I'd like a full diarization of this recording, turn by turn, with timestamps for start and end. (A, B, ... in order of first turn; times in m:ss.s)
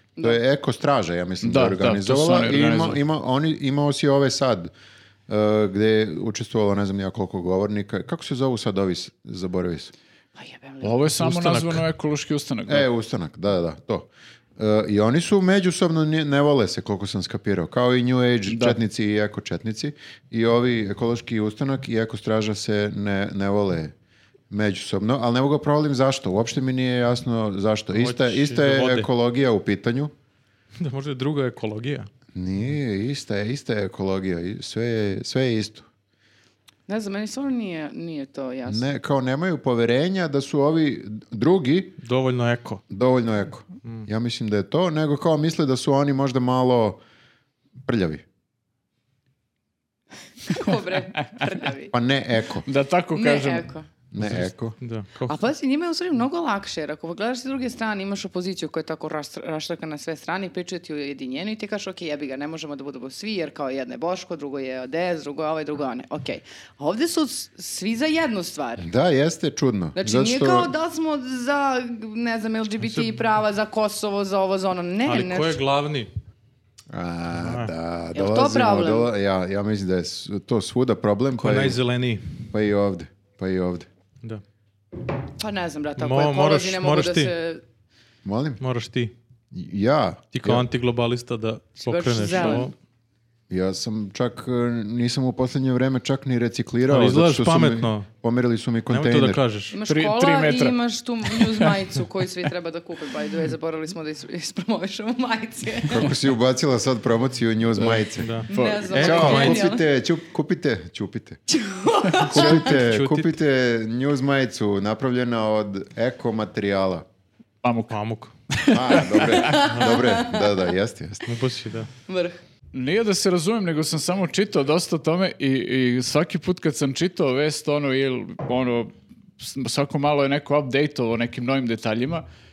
0:00.2-0:04.7 A
0:01.4-0:03.0 B
0:05.3-0:09.9 A
0:10.4-0:11.0 C
0:10.8-0:12.9 B
0:11.2-0:11.8 D
0:12.7-0:23.9 A
0:18.5-0:18.8 B
0:24.5-0:30.1 A
0:27.9-0:29.1 D
0:30.8-0:32.1 D
0:32.3-0:35.9 A
0:36.9-0:38.9 C
0:38.6-0:42.0 A
0:42.0-0:42.8 D
0:42.9-0:47.0 A
0:47.8-0:48.2 A
0:50.5-0:51.9 C
0:51.9-0:52.6 A
0:52.6-0:53.6 B
0:53.1-0:53.8 C
0:54.1-0:54.8 A
0:54.2-0:55.4 D
0:55.3-1:08.9 C
1:08.8-1:10.7 A
1:10.0-1:15.6 C
1:12.8-1:13.1 D
1:15.0-1:16.1 D
1:16.9-1:21.8 A
1:17.3-1:17.7 D
1:18.1-1:19.1 C
1:21.4-1:22.3 D
1:22.5-1:23.9 A
1:25.4-1:27.6 C
1:26.0-1:27.3 D
1:28.2-1:28.6 A
1:28.6-1:29.1 D
1:29.5-1:30.6 A
1:30.3-1:32.7 D
1:31.8-1:32.7 C
1:33.5-1:39.4 A
1:36.9-1:38.1 D
1:38.9-1:39.8 D
1:39.7-1:46.1 C
1:39.9-1:41.7 B
1:45.9-1:48.4 A
1:47.8-1:48.9 B
1:48.2-1:49.6 D
1:48.5-1:49.8 C
1:48.9-1:51.4 A
1:51.5-1:52.7 C
1:52.2-1:53.3 D
1:52.3-1:57.0 A
1:57.6-1:57.9 B
1:57.9-1:58.3 D
1:58.5-1:59.6 B
1:58.7-2:01.3 A
1:59.4-2:00.4 C
1:59.7-2:00.0 D
2:01.2-2:01.9 D
2:02.1-2:02.4 C
2:02.7-2:12.2 B